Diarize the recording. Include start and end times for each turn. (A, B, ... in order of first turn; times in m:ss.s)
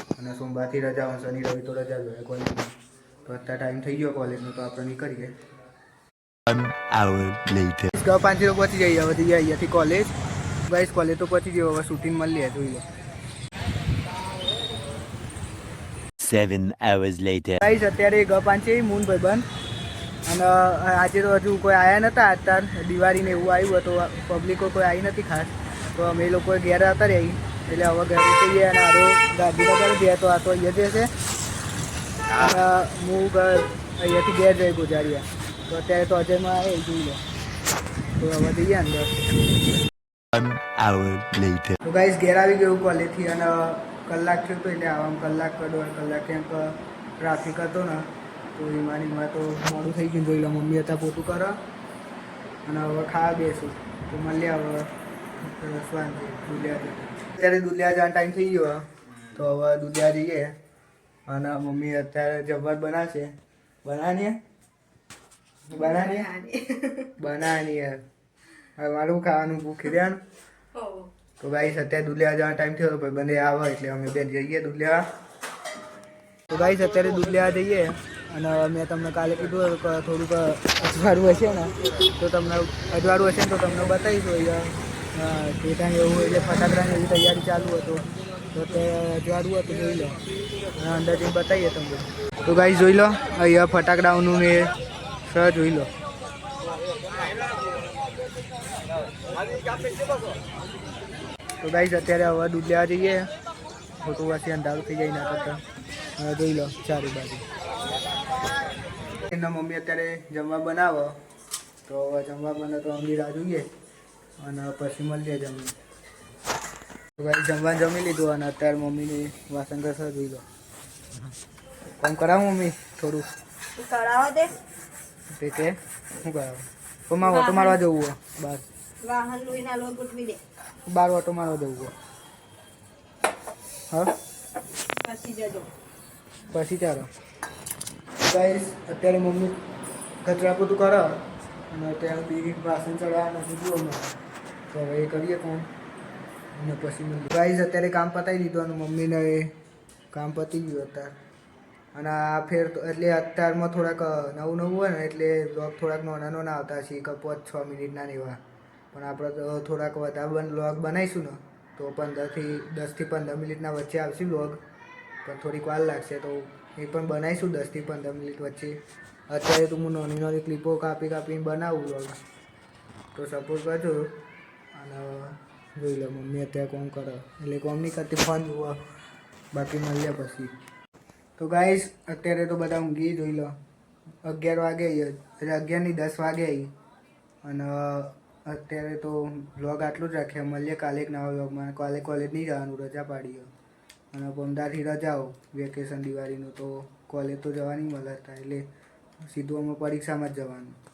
0:00.2-0:05.4 A
0:06.5-0:07.9 B
0:07.9-0:10.1 A
0:10.7-0:12.8 A
0:16.2-0:17.6 B
0:17.6-0:19.5 A
0:20.3-0:31.1 A
0:32.3-0:37.2 A
0:38.2-0:39.8 A
0:40.3-0:41.8 B
0:41.8-0:51.6 A
0:52.7-0:54.9 A
0:55.4-1:00.6 A
1:01.3-1:04.4 A
1:05.7-1:06.3 A
1:05.8-1:07.1 C
1:07.2-1:08.0 A
1:08.8-1:10.2 A
1:10.8-1:11.1 C
1:11.4-1:15.1 A
1:16.5-1:30.2 A
1:30.8-1:34.7 A
1:35.3-1:35.9 A
1:41.6-1:43.3 A
1:44.0-1:45.6 A
1:46.2-1:47.4 A
1:49.3-1:51.2 A
1:51.8-1:53.7 A
1:54.4-1:55.8 A
1:57.2-2:00.4 A
2:02.0-2:03.3 A
2:03.8-2:04.6 C
2:05.3-2:08.7 A
2:07.2-2:07.8 C
2:09.0-2:10.4 C
2:10.9-2:11.9 A
2:15.0-2:15.7 C
2:16.5-2:17.1 A
2:18.2-2:19.6 A
2:20.2-2:24.2 A
2:24.7-2:25.7 A
2:26.6-2:29.5 A
2:30.1-2:31.1 A
2:31.9-2:38.4 A
2:38.9-2:44.6 A
2:45.2-2:48.8 A
2:49.3-2:52.2 A
2:53.1-2:54.1 A
2:54.8-2:58.8 A
2:59.5-3:00.5 A
3:01.4-3:03.6 A
3:04.2-3:06.7 A
3:07.4-3:13.5 A
3:14.1-3:18.6 A
3:19.2-3:20.8 A